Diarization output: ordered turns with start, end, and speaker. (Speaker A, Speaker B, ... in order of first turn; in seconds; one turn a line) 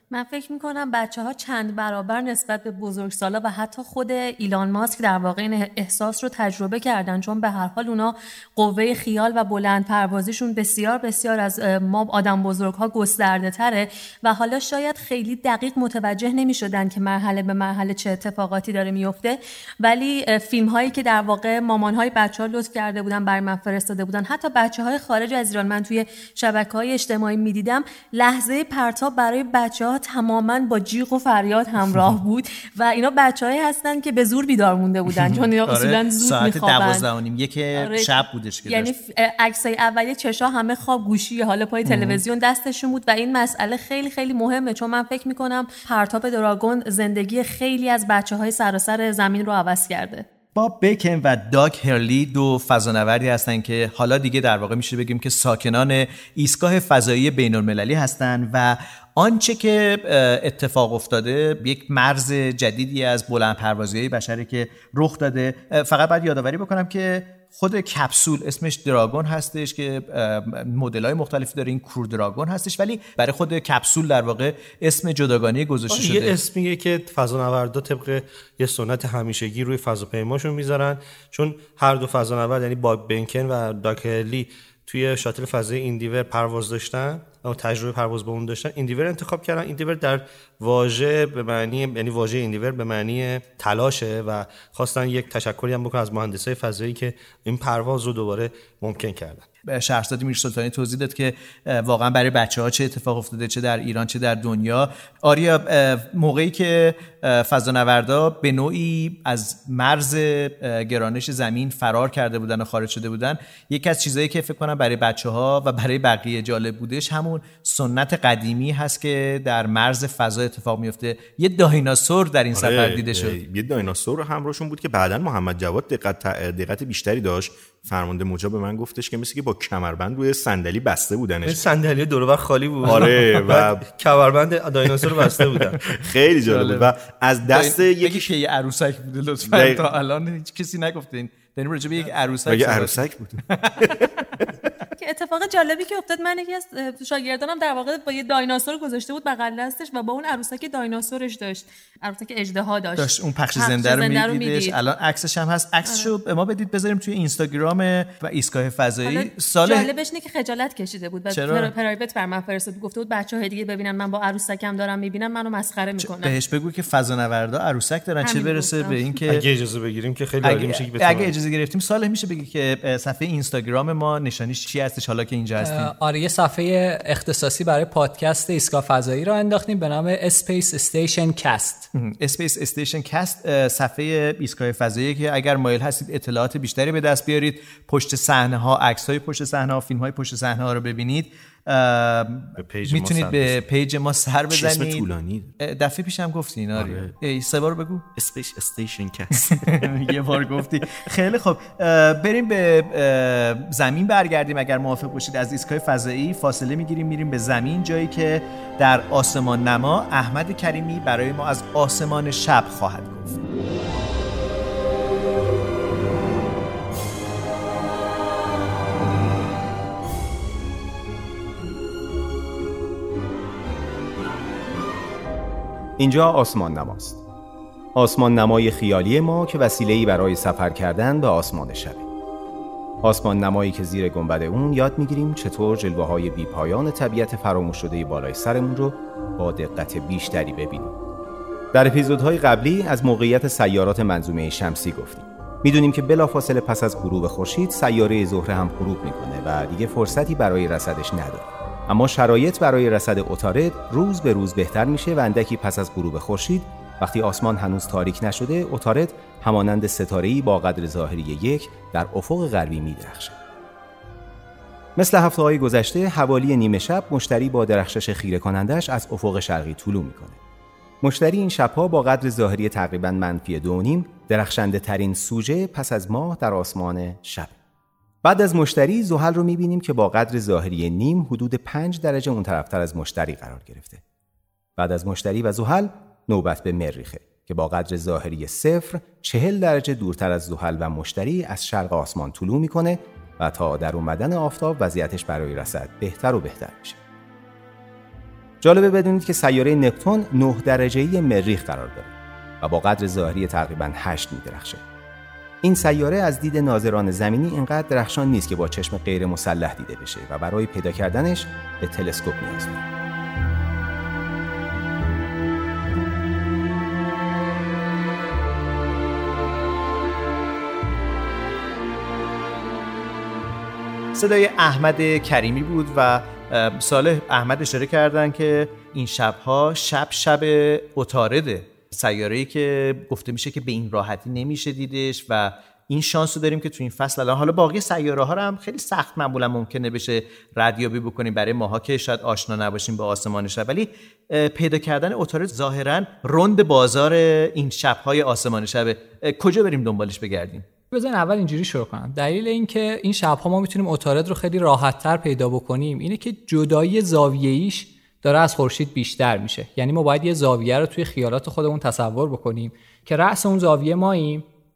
Speaker A: 0.1-37.1
Speaker B: 35.1-38.9
Speaker A: 37.7-50.2
Speaker B: 41.8-42.2
Speaker B: 50.5-76.4
Speaker C: 75.9-99.5
Speaker B: 99.7-123.4
Speaker D: 122.5-131.7
Speaker C: 131.4-135.8
Speaker B: 132.8-133.3
Speaker D: 132.8-133.8
Speaker D: 135.9-138.3
Speaker B: 136.4-136.9
Speaker B: 137.5-144.3
Speaker D: 139.5-139.8
Speaker D: 142.4-144.4
Speaker A: 145.0-154.8
Speaker B: 152.9-159.9
Speaker A: 155.8-156.1
Speaker A: 159.0-166.3
Speaker B: 161.3-161.7
Speaker B: 166.0-169.4
Speaker A: 168.2-169.2
Speaker C: 169.2-171.3
Speaker B: 170.4-175.9
Speaker E: 175.6-181.9
Speaker B: 181.9-195.1
Speaker C: 192.6-193.6
Speaker D: 194.5-195.5
Speaker B: 195.6-198.1
Speaker D: 196.7-197.1
Speaker D: 198.2-199.9
Speaker B: 199.4-213.4
Speaker F: 226.0-227.2
Speaker F: 227.9-232.1
Speaker F: 233.0-240.9
Speaker F: 241.7-263.4
Speaker F: 264.9-270.4
Speaker F: 271.0-277.6
Speaker F: 278.2-284.0
Speaker F: 284.8-297.0
Speaker F: 298.6-304.8
Speaker F: 305.6-312.9
Speaker B: 324.1-350.7
Speaker E: 350.9-364.4